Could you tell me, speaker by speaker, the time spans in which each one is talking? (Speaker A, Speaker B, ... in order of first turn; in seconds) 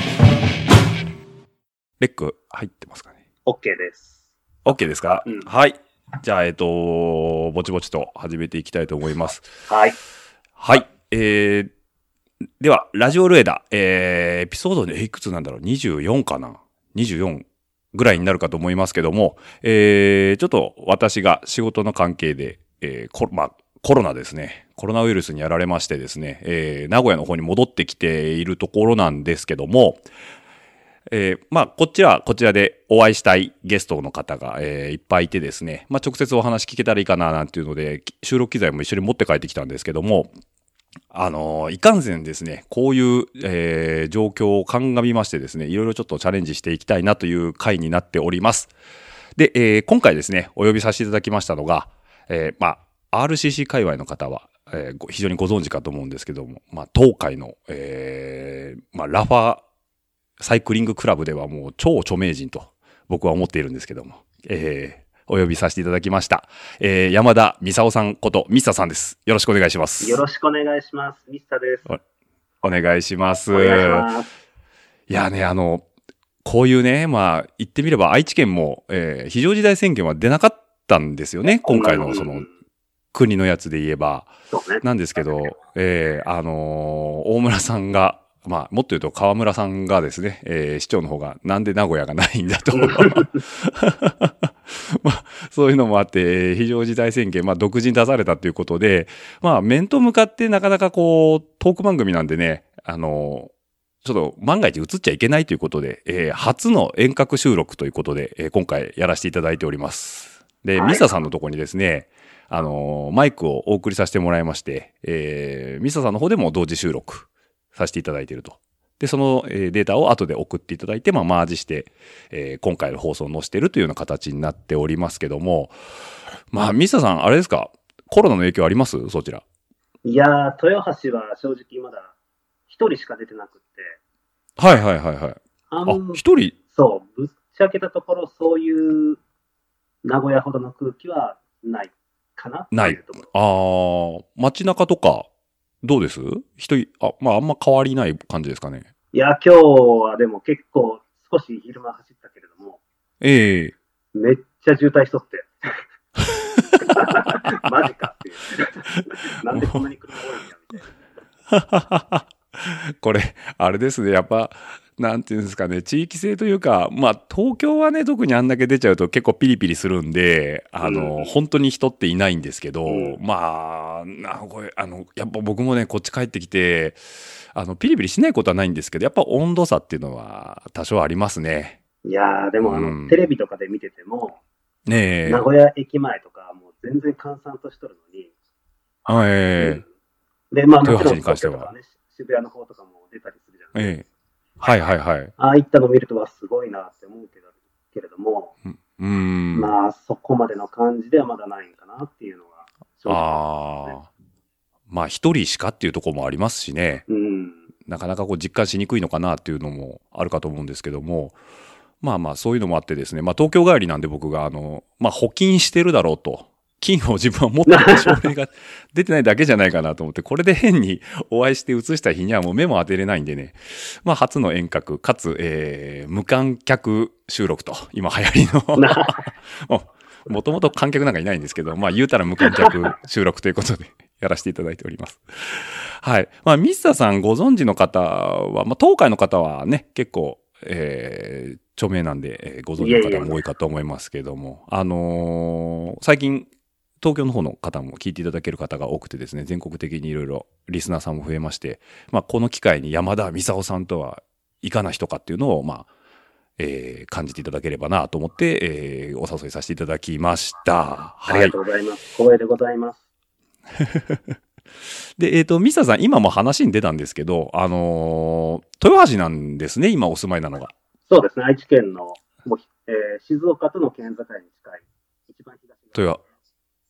Speaker A: 2.0-3.2, 4.7-9.5, 10.6-11.7, 12.6-30.0, 31.1-40.3, 41.1-48.7, 49.4-59.6, 60.4-70.2, 72.6-74.1, 75.1-75.8, 76.4-82.5, 83.1-103.5, 104.0-125.8, 126.5-129.4, 134.6-136.6, 142.7-145.3, 145.8-148.9, 153.2-153.8, 159.6-159.8, 161.5-181.8, 182.6-183.2, 184.9-185.4, 189.1-189.8, 190.8-191.7, 193.7-194.1, 194.6-195.3, 198.7-199.7, 203.1-204.1, 204.9-207.0, 207.9-211.4, 212.0-246.5, 247.0-255.9, 256.6-261.5, 263.8-264.4, 265.2-270.7
Speaker B: 3.5-4.2, 9.7-10.0, 70.0-72.0, 73.5-74.3, 81.7-82.5, 84.5-84.8, 92.7-93.4, 110.8-111.1, 130.1-132.1, 132.7-134.0, 135.7-136.2, 136.7-139.2, 140.0-143.3, 149.1-152.8, 154.1-155.5, 156.8-160.9, 170.8-171.3, 172.9-173.2, 182.1-184.4, 185.3-188.3, 189.6-189.8, 190.5-194.0, 195.4-198.5, 199.5-204.0, 207.1-207.6, 217.7-218.2, 228.8-229.1, 242.8-243.4, 261.3-263.0, 271.1-276.2